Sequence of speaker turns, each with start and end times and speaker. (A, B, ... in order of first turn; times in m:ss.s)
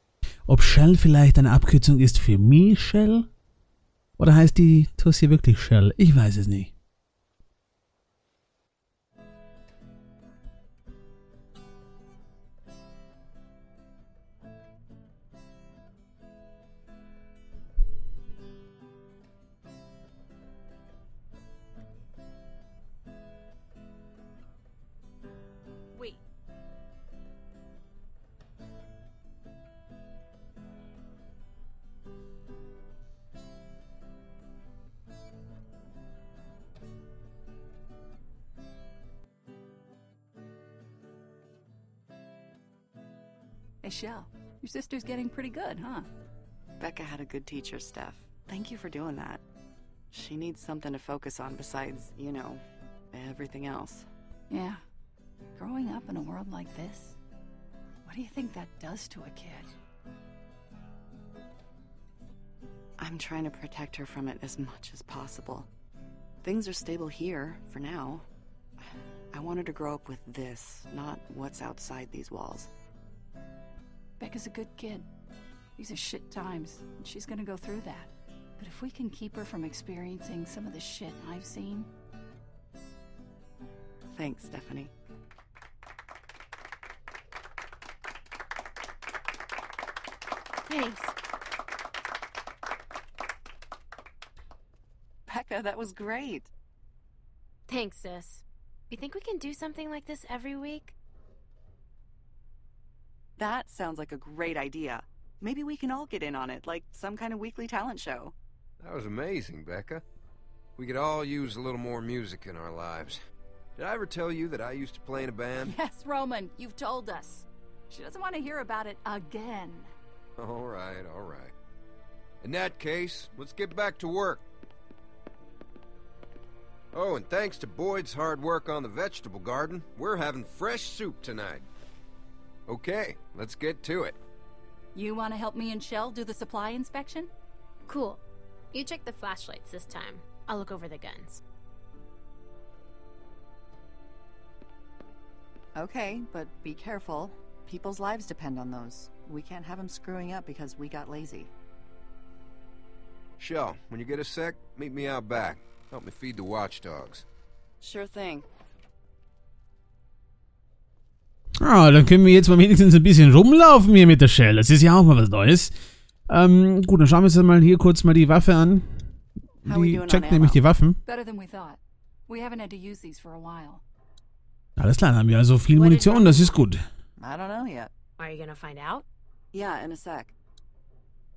0:00.5-0:03.3 A
0:04.2-0:06.7 A
0:43.8-0:46.1 B
0:46.8-0:49.4 C
0:50.1-0:54.1 C
0:54.5-0:54.8 B
0:55.6-0:57.2 B
0:58.0-0:59.7 B
1:03.0-1:05.7 C
1:06.4-1:08.2 C
1:09.3-1:12.7 C
1:14.2-1:15.0 B
1:15.8-1:21.9 B
1:24.1-1:24.9 C
1:30.6-1:31.1 D
1:35.3-1:36.5 C
1:37.7-1:40.9 D
1:43.4-1:48.3 C
1:48.8-1:50.0 E
1:50.8-1:53.2 E
1:53.8-1:55.8 E
1:55.6-1:59.9 B
2:00.4-2:01.5 E
2:02.4-2:04.4 E
2:06.9-2:11.6 E
2:12.7-2:14.2 E
2:14.9-2:17.3 B
2:17.8-2:21.4 D
2:25.7-2:31.5 C
2:33.4-2:37.2 E
2:37.8-2:38.5 C
2:41.6-2:45.7 A
2:46.3-2:48.9 A
2:49.6-2:50.6 C
2:49.6-2:51.0 A
2:51.0-2:53.8 B
2:54.8-2:56.8 A
2:55.7-2:56.6 D
2:57.2-2:57.9 C
2:58.2-2:59.0 D
2:59.5-3:00.3 C